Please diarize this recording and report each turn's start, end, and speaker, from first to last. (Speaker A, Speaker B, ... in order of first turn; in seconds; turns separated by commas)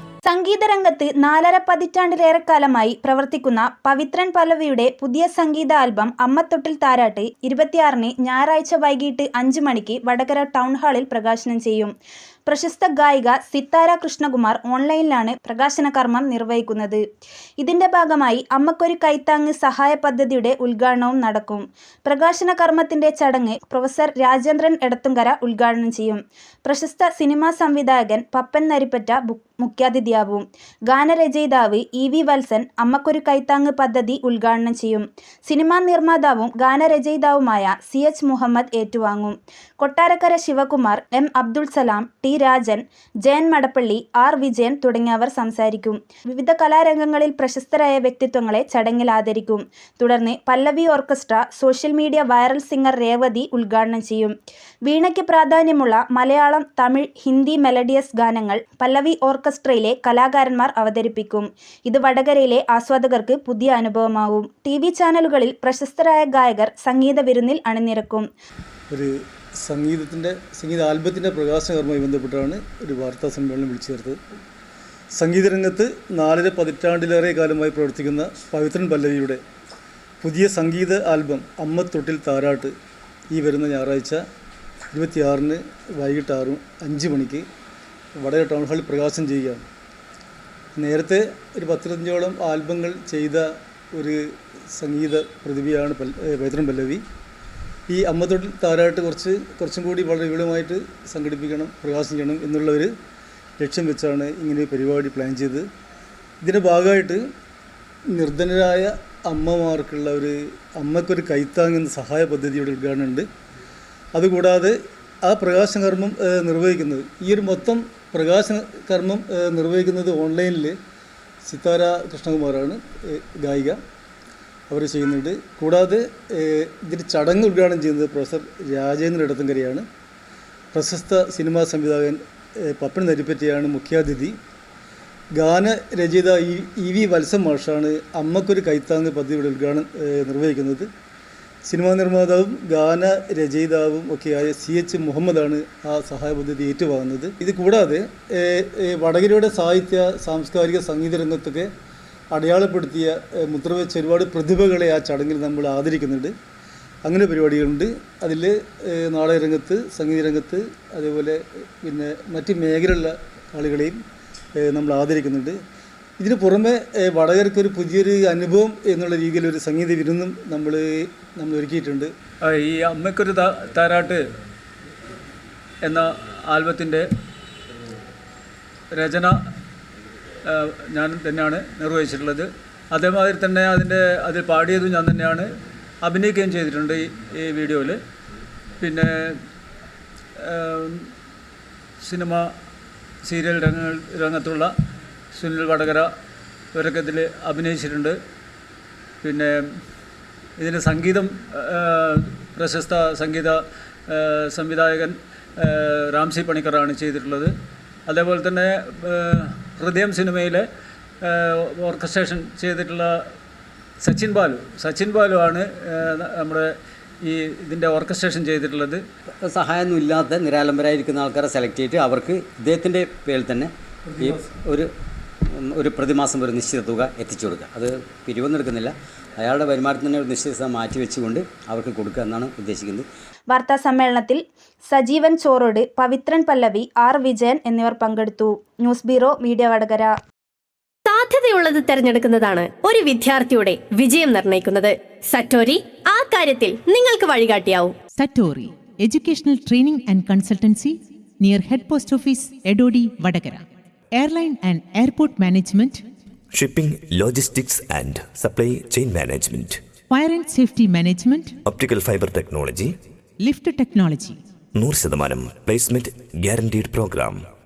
Speaker A: 0.2-11.9, Speaker A: 12.5-17.0, Speaker A: 17.6-54.3, Speaker A: 54.9-68.3, Speaker B: 68.9-74.2, Speaker B: 75.2-79.4, Speaker B: 80.2-82.7, Speaker B: 83.3-84.2, Speaker B: 84.9-87.4, Speaker B: 88.2-89.6, Speaker B: 90.8-94.2, Speaker B: 94.7-97.0, Speaker B: 97.9-102.9, Speaker B: 103.6-105.7, Speaker B: 106.4-107.2, Speaker B: 108.1-113.2, Speaker B: 114.1-120.8, Speaker B: 121.5-123.8, Speaker B: 124.7-129.8, Speaker B: 130.7-134.3, Speaker B: 135.3-140.9, Speaker B: 141.7-151.7, Speaker B: 152.3-156.3, Speaker B: 157.1-164.0, Speaker B: 164.6-165.6, Speaker B: 166.2-172.1, Speaker C: 172.4-174.2, Speaker C: 175.8-177.1, Speaker C: 178.9-179.3, Speaker C: 180.4-185.5, Speaker C: 186.0-188.0, Speaker C: 188.8-189.4, Speaker C: 190.4-191.1, Speaker C: 192.0-192.5, Speaker C: 193.2-194.7, Speaker C: 195.3-196.1, Speaker C: 196.7-198.1, Speaker C: 199.2-199.6, Speaker C: 200.6-203.6, Speaker C: 204.1-207.5, Speaker C: 208.1-210.6, Speaker C: 211.2-213.2, Speaker C: 214.0-216.7, Speaker C: 217.2-219.0, Speaker D: 219.6-223.7, Speaker B: 224.1-224.5, Speaker D: 224.2-224.9, Speaker D: 225.8-233.0, Speaker A: 233.5-240.1, Speaker E: 241.1-247.9, Speaker F: 248.2-256.0, Speaker G: 256.5-259.8, Speaker F: 260.1-261.5, Speaker G: 261.6-262.9, Speaker F: 263.4-264.4, Speaker G: 264.7-267.4